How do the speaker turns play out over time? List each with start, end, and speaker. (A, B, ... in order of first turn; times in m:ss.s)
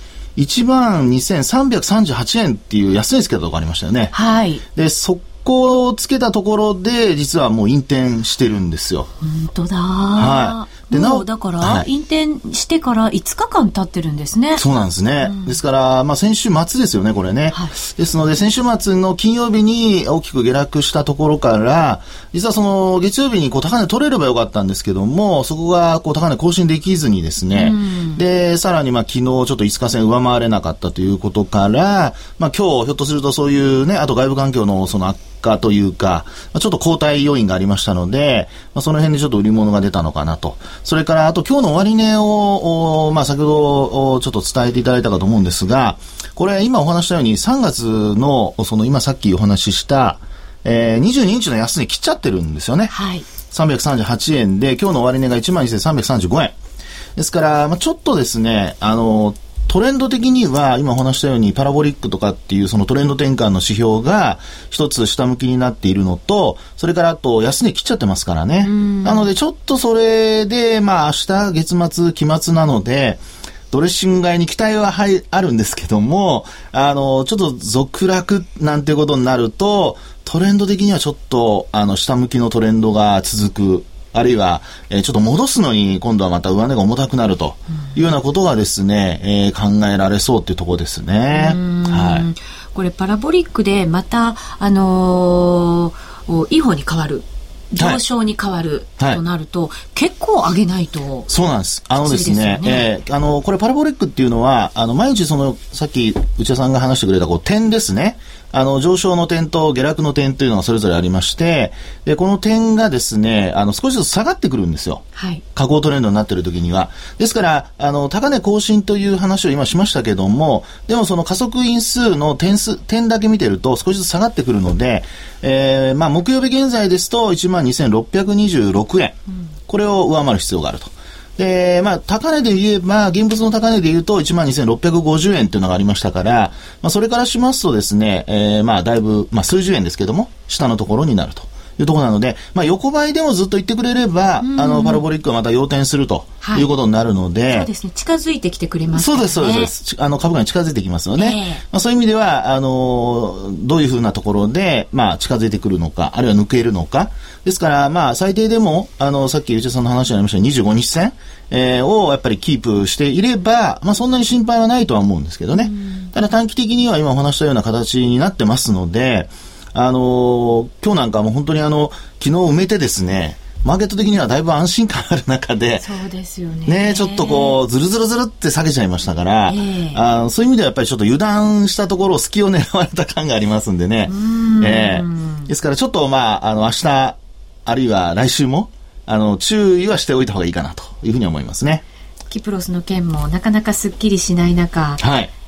0:00.4-0:04.1 A
0:04.1-0:04.6 B
0:04.8-0:09.1 A
0:09.2-0:14.6 B
0:10.2-0:11.9 A
0:14.6-0:52.9 A
0:15.2-0:15.6 B
0:27.5-0:28.2 B
0:52.9-0:53.2 B
0:53.5-0:56.6 A
0:57.2-1:32.2 A
1:08.6-1:09.3 B
1:31.3-1:41.3 B
1:41.3-2:09.2 A
1:42.0-1:42.9 B
1:55.2-1:55.4 B
2:09.7-2:27.7 A
2:24.4-2:25.0 B
2:26.4-2:26.7 B
2:27.5-2:29.7 B
2:28.9-2:55.9 A
2:31.2-2:31.6 B
2:45.6-2:46.1 B
2:55.8-2:57.6 B
2:56.7-3:11.8 A
2:59.5-3:00.0 B
3:04.1-3:05.5 B
3:12.3-3:15.0 B
3:15.0-3:15.3 A